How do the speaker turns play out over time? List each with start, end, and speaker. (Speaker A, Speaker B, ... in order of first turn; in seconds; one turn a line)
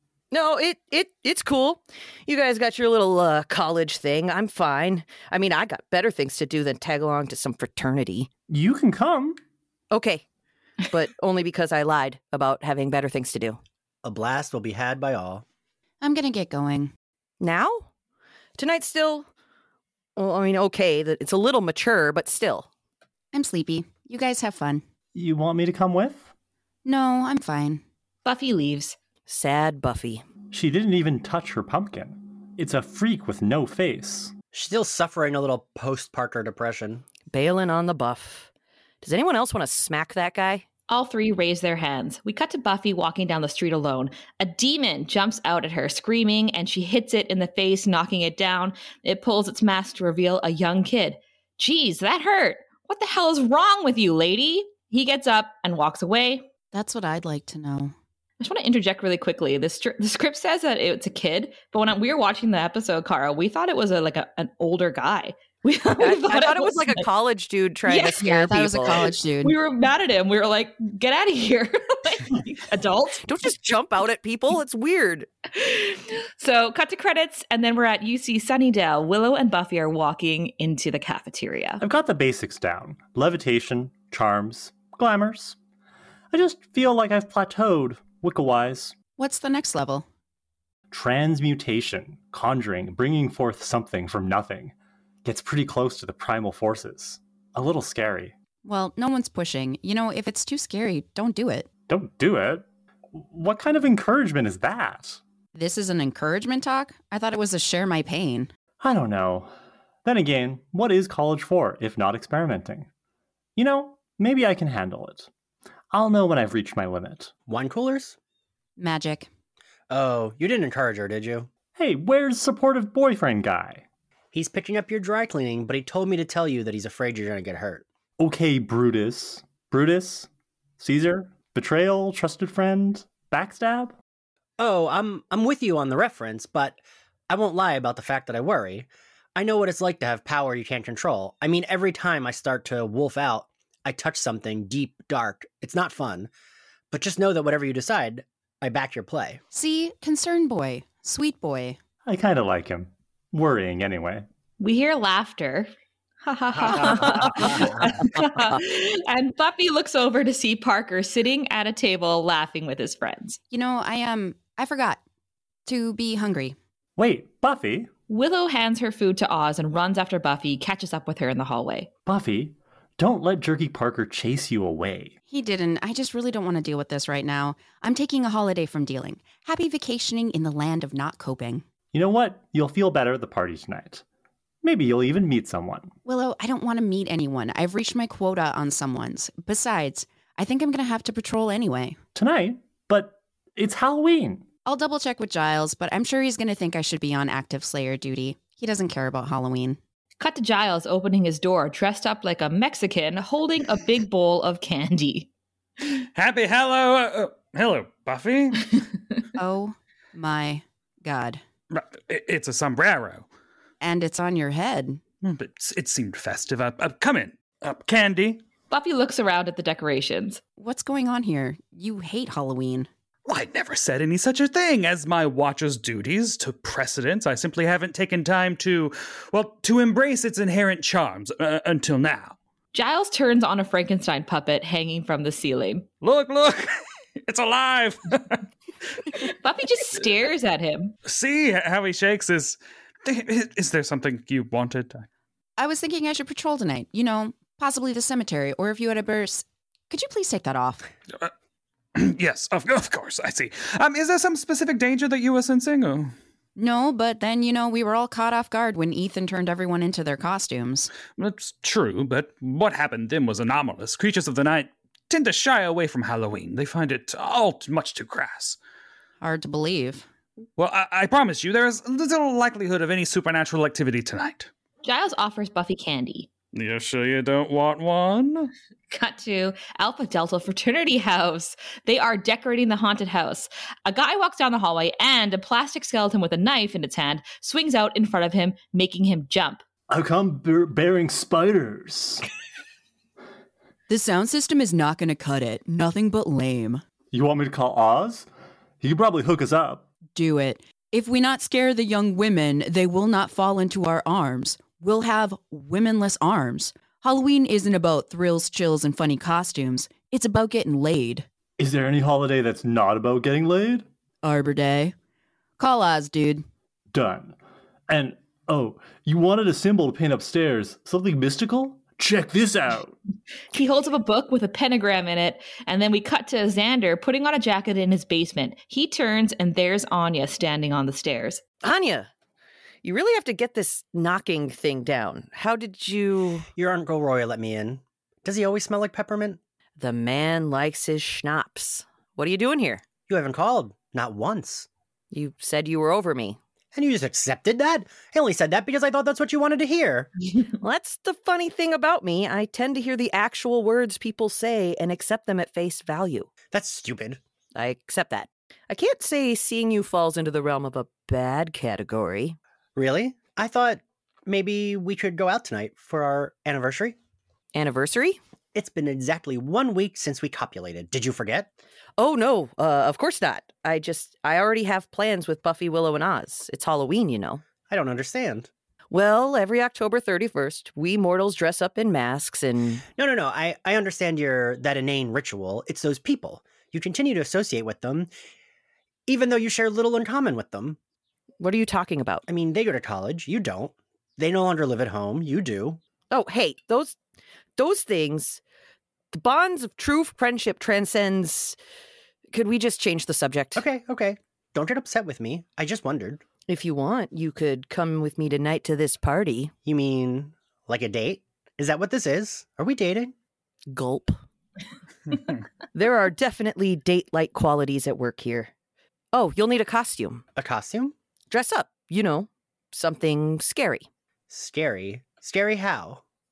Speaker A: 0.3-8.3
Speaker B: 8.5-9.4
Speaker A: 9.9-10.2
Speaker A: 10.8-13.6
Speaker C: 14.0-15.4
Speaker D: 16.0-16.9
Speaker A: 17.4-17.9
Speaker A: 18.6-19.3
Speaker A: 20.2-22.7
Speaker D: 23.3-24.8
Speaker B: 25.1-26.3
Speaker D: 26.9-27.8
Speaker E: 28.2-29.0
Speaker A: 29.3-30.2
Speaker B: 30.5-34.3
Speaker C: 34.5-37.0
Speaker A: 37.3-38.5
Speaker A: 39.0-40.6
Speaker E: 40.9-56.5
Speaker D: 56.7-57.9
Speaker E: 58.4-67.0
Speaker A: 66.0-69.1
Speaker E: 67.9-68.2
Speaker D: 68.2-69.6
Speaker E: 69.4-73.2
Speaker A: 73.2-75.3
Speaker E: 75.5-81.8
Speaker B: 81.8-85.6
Speaker B: 86.3-89.0
Speaker D: 89.2-90.0
Speaker B: 90.9-98.3
Speaker D: 98.7-101.7
Speaker B: 101.9-105.2
Speaker D: 105.5-108.5
Speaker B: 108.8-109.5
Speaker B: 110.0-112.9
Speaker B: 113.6-115.3
Speaker B: 115.9-117.3
Speaker C: 117.5-118.2
Speaker D: 118.8-119.3
Speaker C: 119.9-121.5
Speaker B: 121.8-123.8
Speaker C: 124.3-127.8
Speaker B: 128.2-130.3
Speaker B: 130.8-134.0
Speaker C: 134.6-146.3
Speaker C: 146.9-149.4
Speaker D: 149.5-151.8
Speaker B: 152.1-154.3
Speaker E: 154.6-155.7
Speaker E: 156.2-163.4
Speaker D: 163.5-165.0
Speaker D: 165.7-166.6
Speaker B: 167.0-167.9
Speaker E: 168.1-171.9
Speaker B: 172.1-175.2
Speaker D: 175.3-181.6
Speaker B: 181.9-184.0
Speaker B: 184.6-185.9
Speaker D: 186.1-192.0
Speaker B: 192.2-194.5
Speaker D: 194.7-199.8
Speaker E: 200.2-205.3
Speaker F: 206.2-208.8
Speaker D: 209.4-211.4
Speaker F: 211.7-213.3
Speaker D: 213.8-215.0
Speaker F: 215.2-218.4
Speaker E: 218.7-220.4
Speaker D: 220.6-222.9
Speaker F: 223.3-232.4
Speaker E: 232.7-235.9
Speaker F: 236.0-238.5
Speaker E: 239.2-240.9
Speaker F: 241.1-245.1
Speaker D: 245.6-250.9
Speaker F: 251.9-256.1
Speaker D: 256.6-260.9
Speaker F: 261.1-268.6
Speaker D: 269.2-270.1
Speaker F: 270.6-274.5
Speaker E: 274.8-276.3
Speaker F: 276.5-278.5
Speaker E: 278.9-289.6
Speaker B: 289.9-292.2
Speaker D: 293.9-296.8
Speaker B: 297.1-298.3
Speaker B: 298.8-299.9
Speaker D: 300.1-311.3
Speaker B: 311.6-313.9
Speaker D: 314.2-314.9
Speaker D: 315.6-316.4
Speaker B: 316.9-317.4
Speaker B: 317.9-322.9
Speaker E: 323.5-331.4
Speaker A: 331.6-332.1
Speaker A: 332.8-336.5
Speaker C: 336.6-339.4
Speaker A: 339.8-342.8
Speaker C: 343.1-344.7
Speaker A: 345.1-346.4
Speaker C: 346.7-350.1
Speaker A: 350.6-356.3
Speaker C: 356.5-357.2
Speaker A: 357.6-362.4
Speaker C: 362.8-367.0
Speaker A: 367.5-368.2
Speaker C: 368.6-371.5
Speaker A: 372.0-377.4
Speaker C: 377.7-378.5
Speaker A: 378.9-382.8
Speaker C: 383.0-388.1
Speaker C: 389.1-390.8
Speaker A: 391.4-392.2
Speaker C: 392.3-395.8
Speaker A: 396.1-397.0
Speaker A: 397.6-398.4
Speaker A: 399.1-401.6
Speaker A: 402.3-403.6
Speaker C: 403.6-406.2
Speaker A: 406.5-409.5
Speaker C: 409.6-413.1
Speaker A: 413.7-414.2
Speaker A: 415.7-418.5
Speaker A: 419.1-420.2
Speaker C: 420.4-420.9
Speaker A: 421.3-423.9
Speaker C: 424.3-426.0